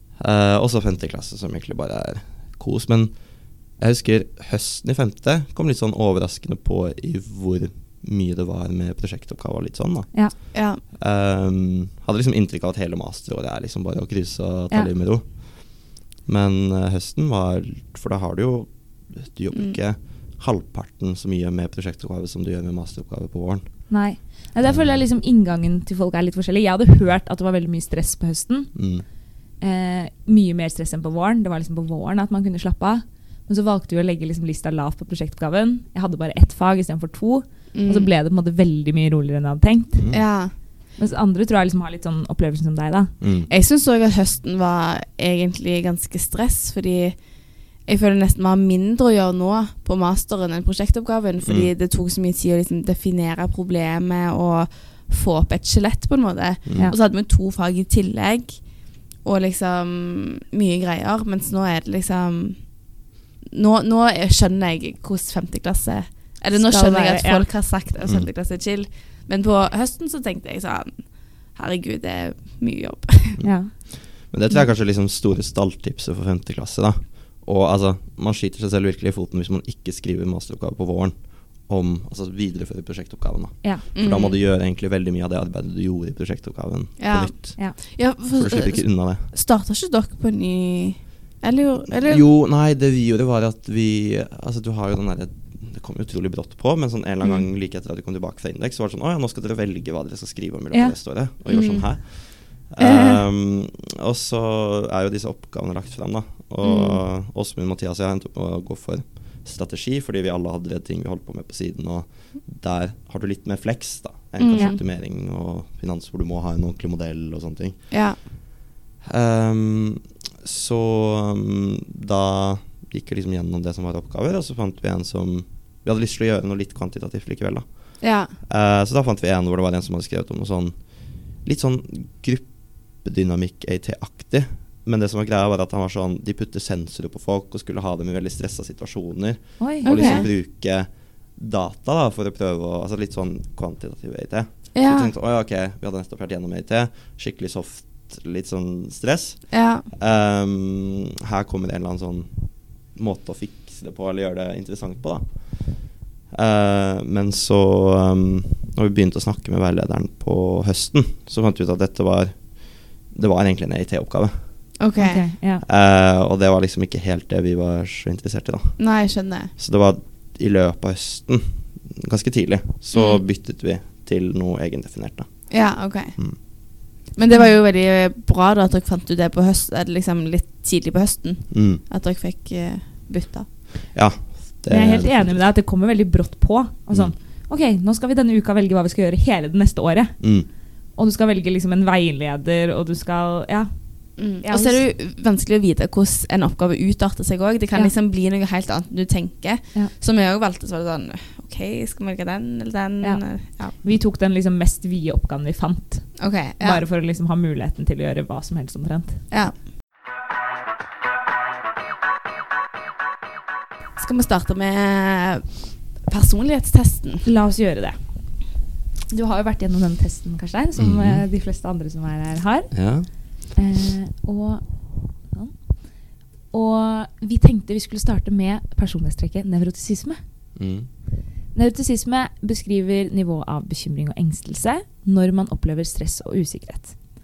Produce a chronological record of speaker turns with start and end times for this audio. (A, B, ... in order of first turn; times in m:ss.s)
0:00.2-0:23.9 A
0:10.5-0:10.8 B
0:23.9-0:28.7 C
0:24.6-0:25.0 A
0:28.7-0:29.0 A
0:29.6-0:40.2 C
0:37.7-0:38.1 B
0:40.0-0:40.2 A
0:40.1-0:40.5 B
0:41.0-0:43.1 C
0:43.2-0:43.5 A
0:43.5-0:47.2 B
0:47.8-0:58.7 B
0:51.4-0:51.7 A
0:56.6-0:56.9 A
0:59.2-1:02.9 B
1:03.4-1:13.4 B
1:06.5-1:07.5 C
1:08.0-1:08.3 A
1:13.4-1:29.3 A
1:13.4-1:14.6 C
1:23.9-1:24.4 B
1:27.0-1:32.2 B
1:31.9-1:58.3 A
1:41.5-1:43.2 B
1:46.6-1:47.0 B
1:54.4-1:54.8 B
1:57.9-1:58.2 B
1:59.0-2:32.3 A
2:08.0-2:08.3 B
2:19.6-2:20.3 C
2:19.8-2:20.3 B
2:24.7-2:25.1 B
2:29.5-2:29.8 B
2:32.9-2:44.3 A
2:44.8-2:45.2 B
2:45.0-2:45.6 C
2:45.6-2:48.8 A
2:48.8-2:49.5 B
2:49.6-2:55.5 A
2:52.9-2:53.2 B
2:55.5-2:56.2 B
2:57.1-3:03.6 B
3:01.5-3:01.8 A
3:03.9-3:05.4 A
3:04.7-3:10.3 C
3:06.9-3:07.2 A
3:10.2-3:10.5 A
3:10.9-3:14.8 C
3:14.2-3:23.8 B
3:23.0-3:29.2 C
3:26.2-3:26.8 B
3:34.0-3:37.2 B
3:37.2-3:38.4 C
3:39.1-3:45.7 C
3:40.8-3:41.2 A
3:42.7-3:43.1 A
3:46.5-3:50.2 C
3:50.6-3:50.9 A
3:51.5-3:57.0 C